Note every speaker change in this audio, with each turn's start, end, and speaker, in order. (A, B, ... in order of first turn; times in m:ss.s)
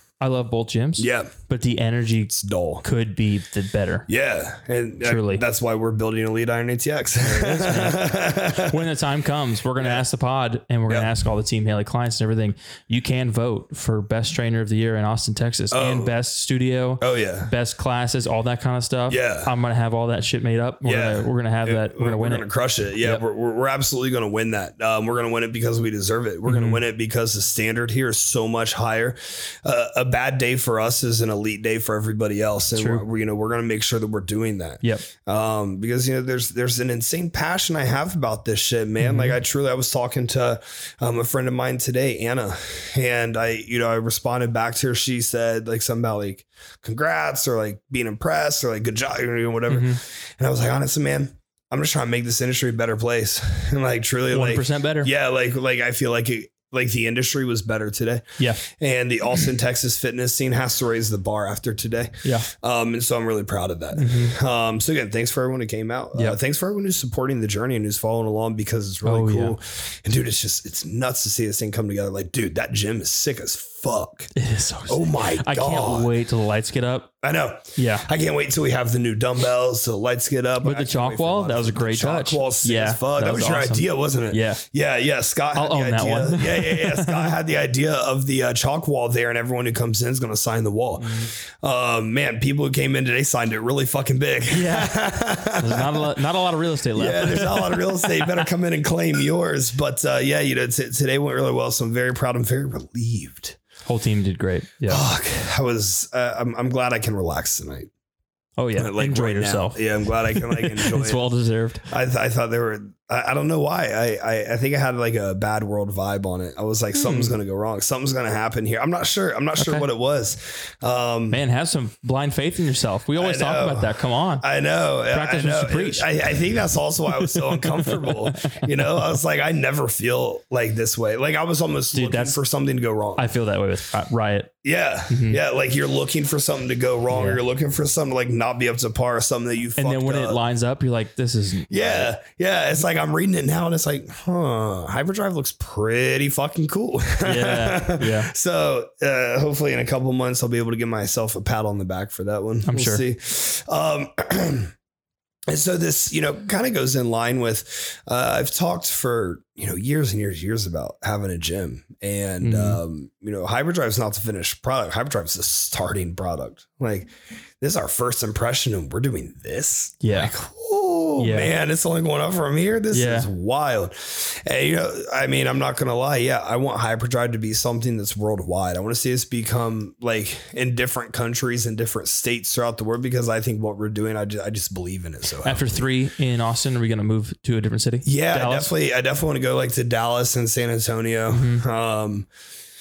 0:00.2-0:02.3 A
0:01.0-0:01.3 B
0:02.3-0:02.8 B
0:02.8-0:04.1 A
0:04.1-0:08.8 B
0:05.0-0:05.4 A
0:07.2-0:22.4 A
0:15.7-0:16.1 B
0:17.0-0:17.5 B
0:19.1-0:19.5 B
0:20.8-1:14.3 B
0:26.5-0:26.8 A
0:32.7-0:33.0 A
0:39.0-0:39.4 A
0:49.7-0:50.0 A
0:54.3-0:55.1 A
1:03.9-1:04.4 A
1:09.0-1:09.6 A
1:14.4-1:17.1 A
1:14.9-1:16.1 B
1:17.2-1:36.1 B
1:17.8-1:18.1 A
1:20.6-1:24.6 A
1:25.5-1:27.3 A
1:31.0-1:31.3 A
1:34.5-1:35.0 A
1:35.5-1:38.5 A
1:36.9-1:43.6 B
1:43.8-1:45.0 A
1:44.9-1:47.9 B
1:48.6-1:51.8 A
1:48.7-1:51.2 B
1:51.9-2:01.4 B
1:56.9-1:57.3 A
1:59.6-1:59.8 A
2:01.3-2:04.4 A
2:03.2-2:13.3 B
2:05.1-2:06.1 A
2:07.1-2:09.2 A
2:11.9-2:12.4 A
2:13.2-2:14.5 A
2:14.6-2:20.4 B
2:15.1-2:15.4 A
2:17.1-2:17.4 A
2:19.8-2:22.1 A
2:21.7-2:34.7 B
2:27.2-2:28.3 A
2:32.6-2:33.0 A
2:35.5-3:05.9 B
2:42.4-2:42.8 A
2:50.0-2:50.3 A
2:51.2-2:51.5 A
2:52.9-2:53.3 A
3:05.4-3:08.7 A
3:08.0-3:12.3 B
3:11.3-3:11.6 A